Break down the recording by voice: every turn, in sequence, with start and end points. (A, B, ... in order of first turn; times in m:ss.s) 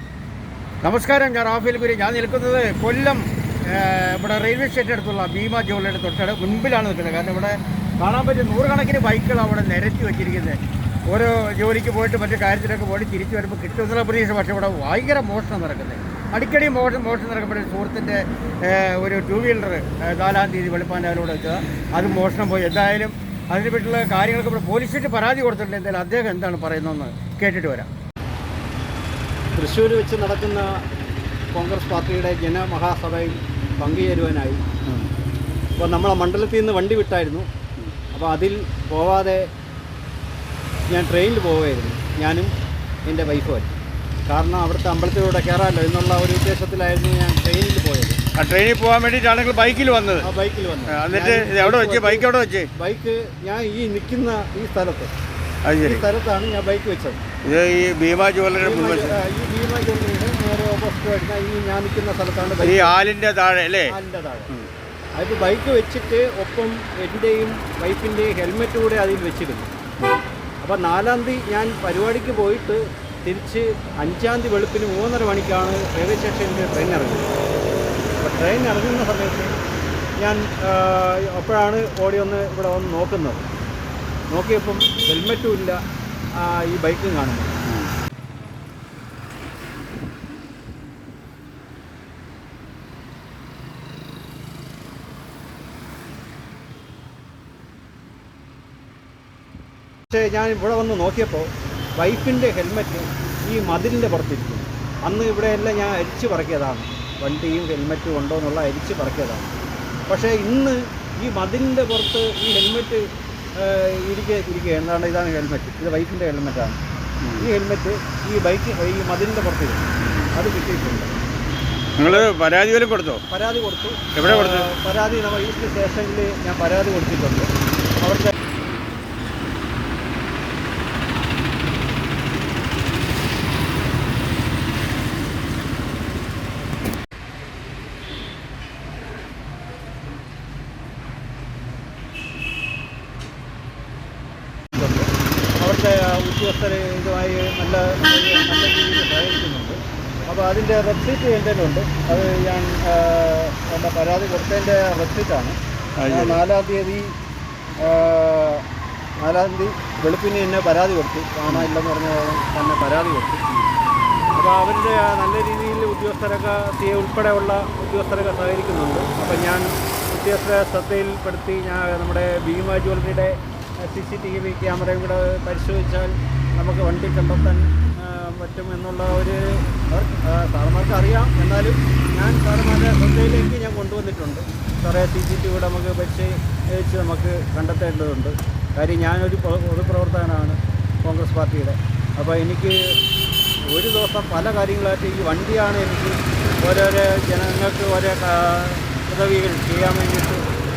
0:00.8-0:10.6 A
0:11.1-0:27.9 A
0:29.5-0:30.7 B
0:31.5-0:34.6 B
0:35.8-0:37.5 B
0:38.1-0:39.4 B
0:40.9-0:42.5 B
0:43.1-0:43.8 B
0:44.3-0:48.2 B
0:48.3-0:50.3 A
0:50.2-0:55.1 B
0:50.9-0:52.7 A
0:55.6-0:56.0 A
0:55.8-0:57.2 B
0:57.4-0:59.1 A
0:58.6-1:03.0 B
1:02.6-1:03.9 A
1:03.9-1:04.5 B
1:05.2-1:09.7 B
1:10.6-1:17.3 B
1:18.2-1:19.5 B
1:20.2-1:23.5 B
1:24.3-1:25.8 B
1:26.4-1:27.6 B
1:40.1-1:49.6 B
1:50.1-1:53.0 B
1:53.6-1:56.8 B
1:57.4-1:59.8 B
2:00.0-2:00.3 A
2:00.3-2:01.2 B
2:02.0-2:03.2 A
2:02.0-2:02.3 B
2:03.3-2:08.3 B
2:04.1-2:04.7 A
2:24.7-2:35.6 B
2:36.0-2:36.4 A
2:36.1-2:37.1 B
2:37.8-2:38.6 B
2:39.2-2:43.4 B
2:44.3-3:12.8 B
3:13.7-3:20.4 B